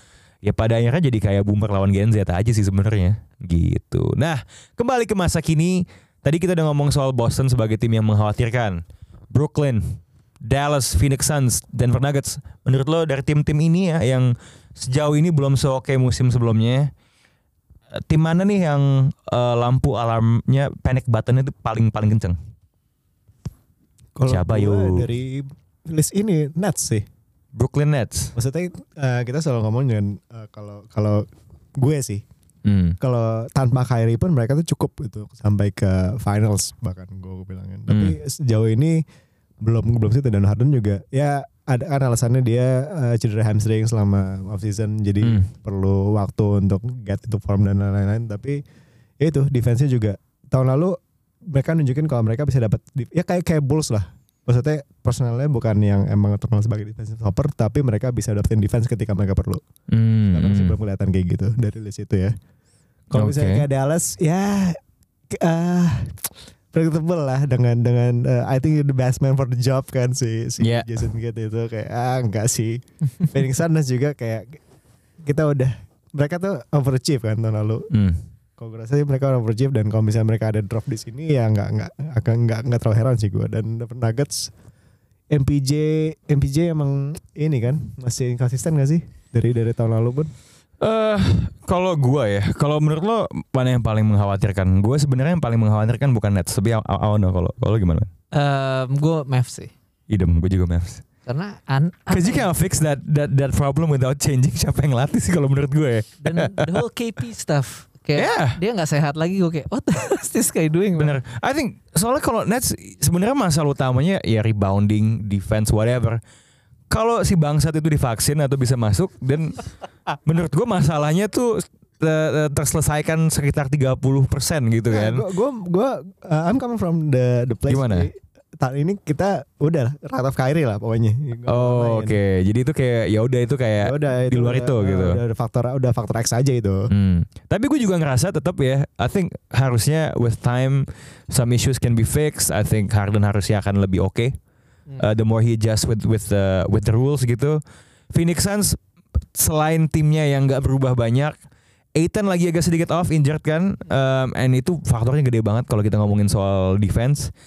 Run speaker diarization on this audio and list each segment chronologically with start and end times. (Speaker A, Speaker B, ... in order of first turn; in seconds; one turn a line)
Speaker A: 0.4-16.9
Speaker A: 17.9-22.4
Speaker B: 24.1-27.1
Speaker A: 24.3-25.1
Speaker A: 27.5-28.3
Speaker B: 28.3-32.2
Speaker A: 32.6-33.0
Speaker B: 33.0-39.0
Speaker A: 37.9-38.1
Speaker B: 39.6-48.6
Speaker A: 45.2-45.5
Speaker B: 49.2-51.0
Speaker B: 51.5-59.6
Speaker A: 59.9-60.8
Speaker B: 60.3-62.3
Speaker B: 63.1-64.8
Speaker A: 63.1-63.6
Speaker B: 65.3-74.6
Speaker A: 70.6-70.9
Speaker B: 75.2-77.9
Speaker A: 77.9-78.2
Speaker B: 78.6-84.5
Speaker B: 85.3-90.3
Speaker A: 90.8-98.1
Speaker C: 98.3-99.7
Speaker A: 100.1-101.0
Speaker C: 101.2-102.5
Speaker A: 102.1-106.8
Speaker C: 106.2-111.2
Speaker A: 108.2-108.6
Speaker A: 111.0-116.2
Speaker A: 116.9-119.6
Speaker A: 120.2-125.2
Speaker B: 124.9-132.2
Speaker A: 127.7-128.1
Speaker A: 131.5-135.2
Speaker B: 133.8-136.9
Speaker A: 136.9-144.3
Speaker A: 145.0-147.6
Speaker A: 148.1-148.8
Speaker A: 149.3-151.3
Speaker A: 151.9-157.3